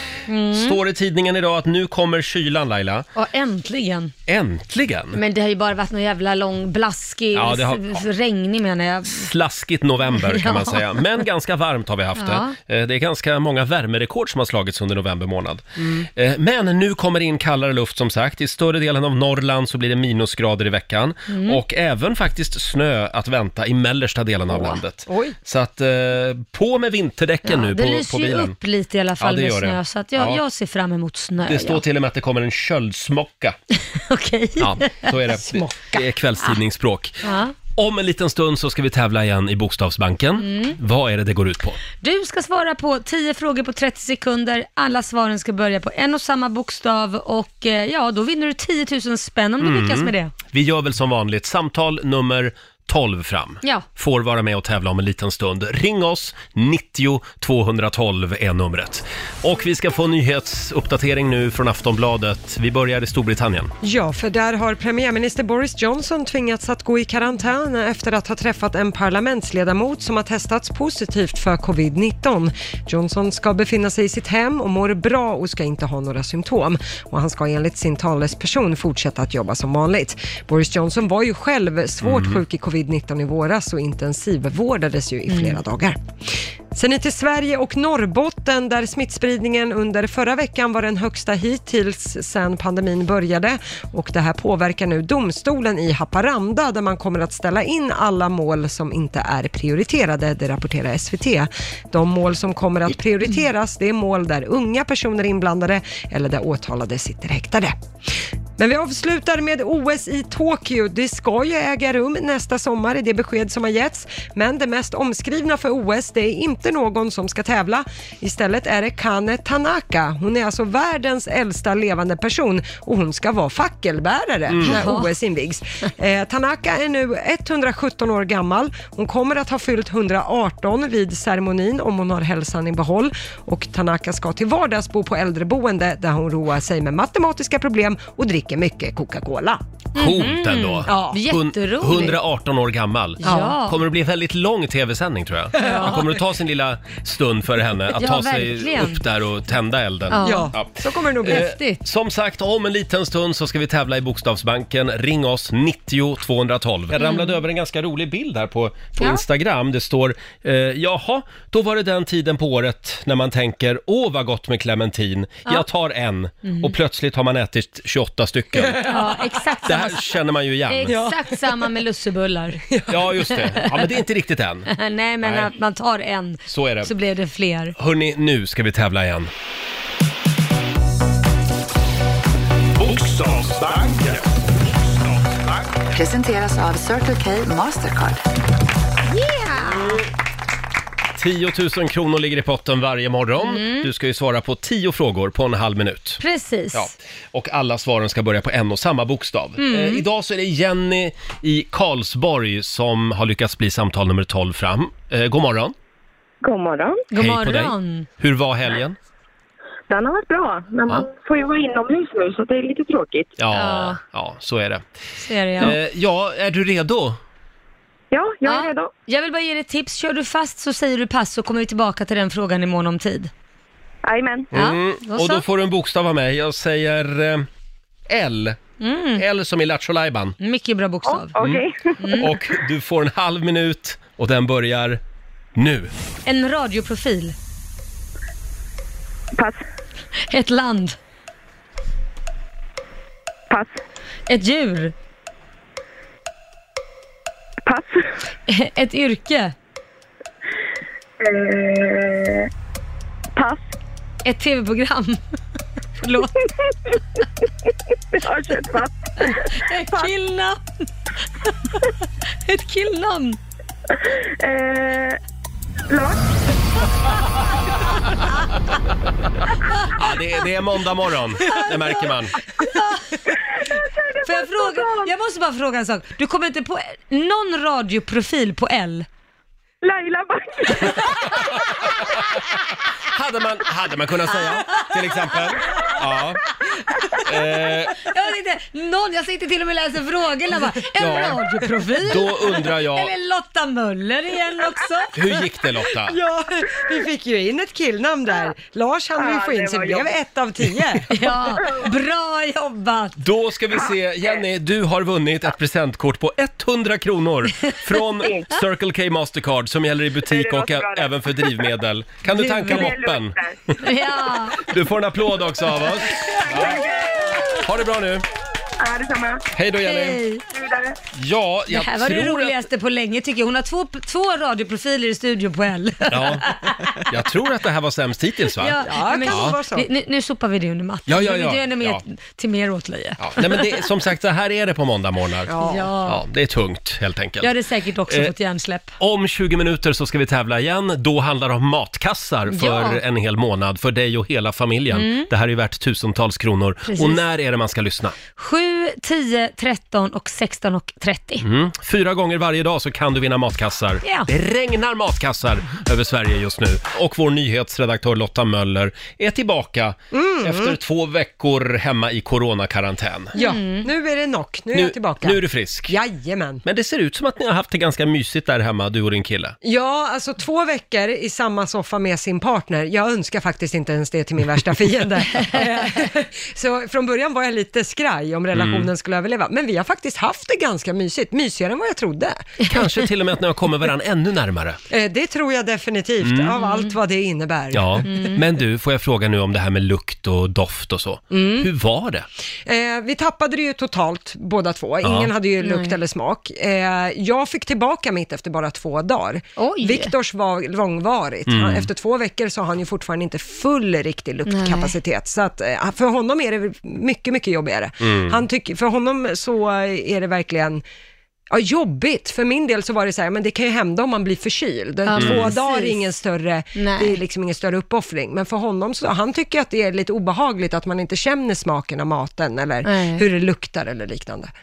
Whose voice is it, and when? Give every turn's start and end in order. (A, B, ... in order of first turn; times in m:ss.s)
0:00.3-0:00.8 A
0:00.5-0:03.1 B
0:03.2-0:04.1 A
0:04.3-0:05.2 B
0:05.1-0:09.3 A
0:07.3-0:08.1 B
0:09.1-0:15.6 B
0:10.1-0:11.1 A
0:12.2-0:12.6 A
0:15.8-0:16.1 C
0:16.2-0:28.5 B
0:21.3-0:21.6 A
0:24.5-0:24.8 A
0:25.1-0:25.4 C
0:27.4-0:31.8 A
0:29.2-0:30.4 B
0:31.5-0:33.6 B
0:33.8-0:35.4 A
0:34.6-0:41.8 B
0:35.4-0:36.0 C
0:37.2-0:37.5 A
0:40.4-0:40.8 A
0:42.0-0:50.3 A
0:49.6-1:03.7 B
1:03.8-1:47.8 C
1:22.0-1:22.4 B
1:25.3-1:25.6 A
1:48.6-2:19.6 C
2:04.5-2:04.8 B
2:04.6-2:05.1 A
2:20.0-2:22.2 A
2:20.0-2:30.7 B
2:20.9-2:21.2 C
2:23.2-2:23.8 A
2:23.2-2:23.6 C
2:25.6-2:26.2 A
2:27.9-2:29.0 A
2:30.1-2:30.6 A
2:30.2-2:31.5 C
2:31.2-2:31.8 A
2:31.2-2:49.1 B
2:37.0-2:37.4 A
2:46.4-2:46.8 A
2:48.8-2:49.1 C
2:48.8-2:52.6 A
2:49.6-2:51.0 B
2:50.9-2:51.7 C
2:52.7-2:53.0 C
2:52.9-2:55.6 B
2:53.3-2:53.9 A
2:54.7-2:57.8 A
2:56.5-2:56.9 B
2:57.8-2:59.3 B
3:02.8-3:05.8 D
3:05.9-3:08.2 E
3:09.1-3:10.0 A
3:09.6-3:10.0 B
3:11.2-3:16.2 B
3:13.4-3:13.9 A
3:16.2-3:16.9 A
3:16.7-3:25.8 B
3:19.6-3:20.0 A
3:26.4-3:27.0 F
3:27.1-3:28.1 A
3:27.2-3:29.0 B
3:29.9-3:33.3 F
3:33.4-3:34.8 B
3:33.5-3:34.0 A
3:35.2-3:35.8 A
3:35.6-3:37.2 B
3:38.1-3:38.9 F
3:38.4-3:43.3 A
3:44.0-3:44.5 F
3:44.5-3:45.4 A
3:44.5-3:47.5 B
3:48.1-3:48.6 B
3:48.8-3:49.2 A
3:49.2-3:50.4 B
3:50.4-3:51.4 A
3:51.1-3:52.3 F
3:51.4-3:55.0 B
3:52.0-3:52.3 A
3:55.6-3:55.9 B
3:56.3-3:57.4 A
3:59.4-3:59.6 F
4:00.3-4:01.0 A
4:04.3-4:04.9 A
4:07.6-4:08.1 F
4:08.5-4:09.6 A
4:11.2-4:12.5 F
4:13.4-4:13.6 F
4:14.2-4:15.2 A
4:16.0-4:16.4 A
4:18.1-4:20.1 F
4:19.2-4:20.6 A
4:21.4-4:21.9 A
4:22.5-4:23.4 A
4:24.0-4:25.2 F
4:25.9-4:26.2 F
4:29.9-4:32.4 B
4:31.4-4:33.2 A
4:33.3-4:35.1 F
4:34.2-4:39.1 A
4:39.8-4:41.4 F
4:43.0-4:46.4 B
4:44.6-4:45.9 A
4:46.6-4:55.4 A
4:47.2-4:48.1 B
4:51.0-4:51.4 B
4:52.0-4:53.1 B
4:55.1-4:56.2 B
4:56.0-5:01.2 C
4:59.2-5:00.1 F
5:01.1-5:03.2 A
5:01.5-5:01.9 F
5:03.2-5:13.8 B
5:08.2-5:08.5 F
5:10.2-5:11.1 F
5:12.3-5:13.0 A
5:12.6-5:13.6 F
5:13.8-5:14.6 A
5:14.6-5:16.8 B
5:16.4-5:17.6 F
5:17.5-5:18.2 B
5:18.8-5:19.4 F
5:19.5-5:20.2 B
5:19.8-5:20.4 A
5:20.5-5:21.0 F
5:21.1-5:22.6 B
5:21.7-5:27.1 A
5:26.1-5:29.6 B
5:28.6-5:33.9 A
5:28.8-5:29.9 C
5:31.1-5:32.0 B
5:33.2-5:37.5 B
5:35.5-5:35.9 C
5:35.6-5:36.2 A
5:37.4-5:38.9 A
5:38.1-5:38.3 B
5:39.0-5:48.2 B
5:42.5-5:43.0 A
5:44.9-5:45.3 A
5:46.9-5:47.2 A
5:48.3-5:51.4 A
5:51.4-6:03.4 B
5:54.0-5:54.3 A
6:00.1-6:00.8 C
6:03.4-6:03.9 A
6:03.4-6:06.6 C
6:04.7-6:06.0 B
6:06.6-6:09.6 B
6:09.6-6:22.6 C
6:18.5-6:18.9 B
6:22.6-6:24.8 B
6:24.9-6:28.3 C
6:26.2-6:26.5 B
6:26.6-6:26.9 A
6:27.7-6:32.3 B
6:28.0-6:28.4 A
6:31.3-6:31.7 C
6:32.6-6:50.8 C
6:35.0-6:35.3 B
6:35.6-6:36.0 A
6:39.6-6:40.1 A
6:41.5-6:41.9 B
6:44.5-6:44.9 A
6:48.0-6:48.4 B
6:51.5-7:04.5 C
6:55.1-6:56.0 A
6:55.2-6:55.5 B
6:56.8-6:57.2 A
7:02.8-7:03.2 A